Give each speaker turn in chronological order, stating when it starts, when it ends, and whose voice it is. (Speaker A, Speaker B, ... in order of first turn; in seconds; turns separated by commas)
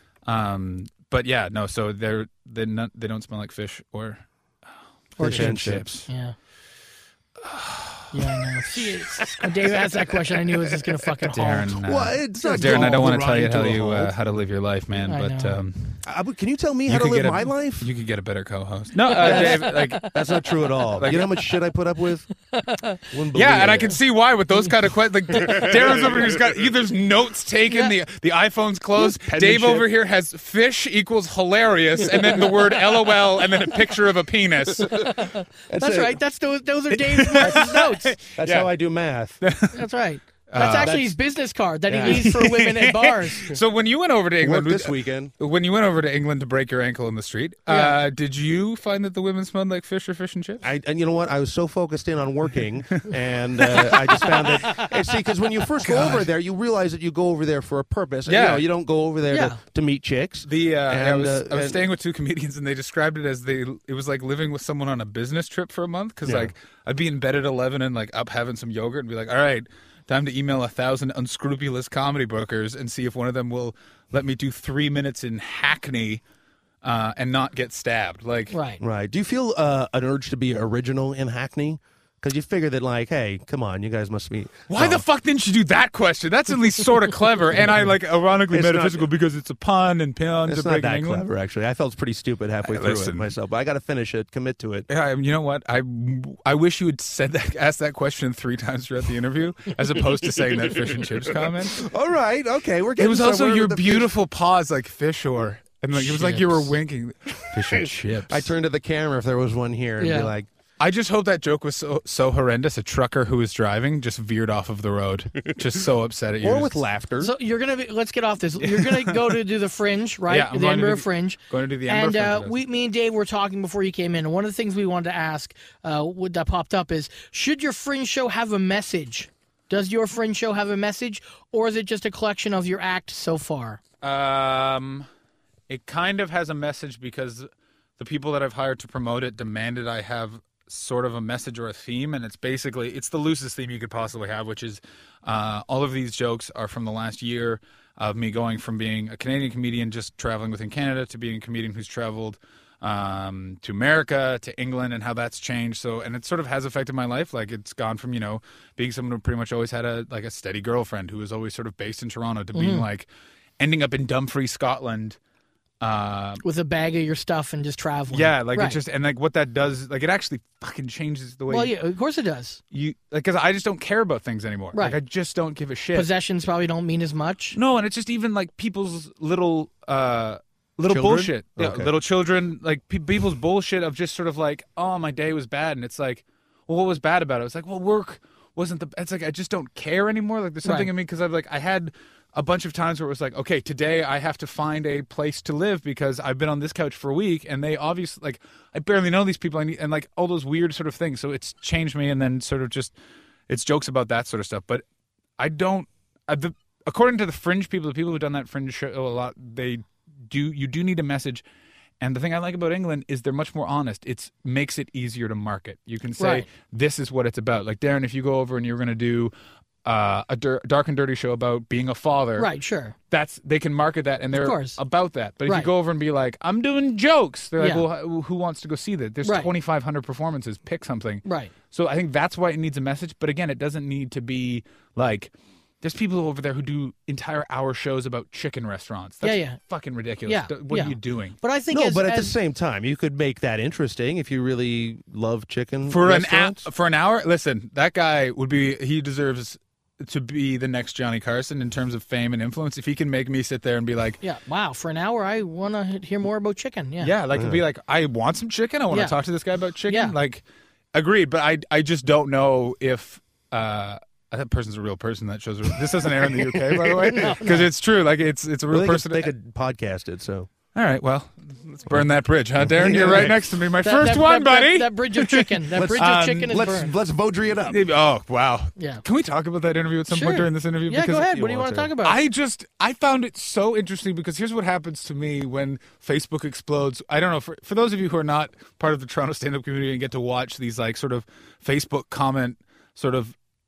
Speaker A: 0.2-4.2, Speaker A: 5.2-6.0, Speaker B: 5.2-6.0, Speaker C: 5.2-6.3, Speaker A: 7.4-8.1, Speaker C: 8.1-11.8, Speaker A: 8.7-9.3, Speaker A: 11.2-16.0, Speaker B: 11.8-14.2, Speaker C: 12.4-13.1, Speaker C: 15.0-15.6, Speaker B: 16.0-17.9, Speaker A: 16.9-20.1, Speaker C: 19.0-20.9, Speaker B: 19.1-22.3, Speaker A: 20.9-21.4, Speaker C: 22.5-23.0, Speaker B: 23.1-24.0, Speaker A: 23.3-35.2, Speaker C: 25.3-25.6, Speaker B: 25.5-26.4, Speaker C: 27.7-27.9, Speaker B: 28.9-29.9, Speaker B: 32.1-32.5, Speaker C: 34.9-38.2, Speaker B: 35.7-36.2, Speaker A: 37.0-38.7, Speaker B: 37.4-39.4, Speaker A: 39.4-39.8, Speaker C: 39.7-43.5, Speaker A: 40.5-41.1, Speaker B: 40.6-41.1, Speaker B: 41.9-42.4, Speaker A: 42.0-50.6, Speaker B: 44.4-45.3, Speaker C: 47.7-48.0, Speaker B: 50.6-61.9, Speaker A: 52.9-54.5, Speaker C: 54.2-54.9, Speaker A: 55.8-56.2, Speaker A: 58.2-58.6, Speaker C: 59.3-59.6, Speaker A: 60.4-76.2, Speaker B: 66.2-66.5, Speaker A: 76.8-78.5, Speaker C: 78.5-78.8, Speaker B: 78.8-85.0, Speaker A: 84.7-91.2, Speaker B: 87.6-87.9, Speaker B: 88.5-89.1, Speaker B: 90.5-94.9, Speaker A: 92.6-93.3, Speaker A: 94.9-101.8, Speaker B: 100.7-104.1, Speaker A: 103.0-108.5, Speaker B: 106.1-106.5, Speaker C: 106.1-106.5, Speaker B: 107.5-110.5, Speaker C: 110.0-110.3, Speaker A: 110.8-116.8, Speaker B: 116.4-117.3, Speaker C: 117.2-133.8, Speaker A: 118.6-119.3, Speaker A: 120.3-122.6, Speaker A: 134.0-135.1, Speaker A: 135.7-163.1, Speaker C: 162.5-162.8, Speaker A: 163.6-165.2, Speaker A: 165.8-166.4, Speaker C: 166.4-168.8, Speaker A: 168.1-171.7, Speaker C: 171.5-172.6, Speaker A: 172.7-176.1, Speaker C: 174.7-175.0, Speaker C: 175.9-177.6, Speaker A: 177.5-202.9, Speaker B: 180.9-181.9, Speaker C: 190.6-190.9, Speaker A: 203.5-204.8, Speaker A: 205.4-211.4, Speaker A: 212.0-219.3, Speaker C: 216.2-216.4, Speaker A: 219.8-222.5, Speaker C: 222.4-222.9, Speaker A: 223.1-241.4, Speaker C: 224.3-224.8, Speaker C: 225.4-225.7, Speaker C: 227.6-227.8, Speaker C: 229.2-229.5, Speaker C: 231.2-231.5, Speaker C: 239.2-239.6, Speaker C: 240.2-242.3, Speaker B: 241.7-246.7, Speaker A: 245.8-254.2, Speaker C: 254.2-257.1, Speaker A: 257.0-269.3, Speaker B: 257.3-257.6, Speaker C: 258.9-259.2, Speaker C: 259.9-260.1, Speaker B: 266.2-267.5, Speaker C: 267.0-267.7, Speaker B: 268.7-270.5, Speaker A: 270.7-276.6, Speaker B: 272.6-273.4, Speaker C: 273.8-276.9, Speaker B: 275.7-277.8, Speaker A: 277.6-281.3, Speaker C: 278.8-279.0, Speaker C: 280.1-282.2, Speaker B: 281.1-281.9, Speaker A: 282.0-293.3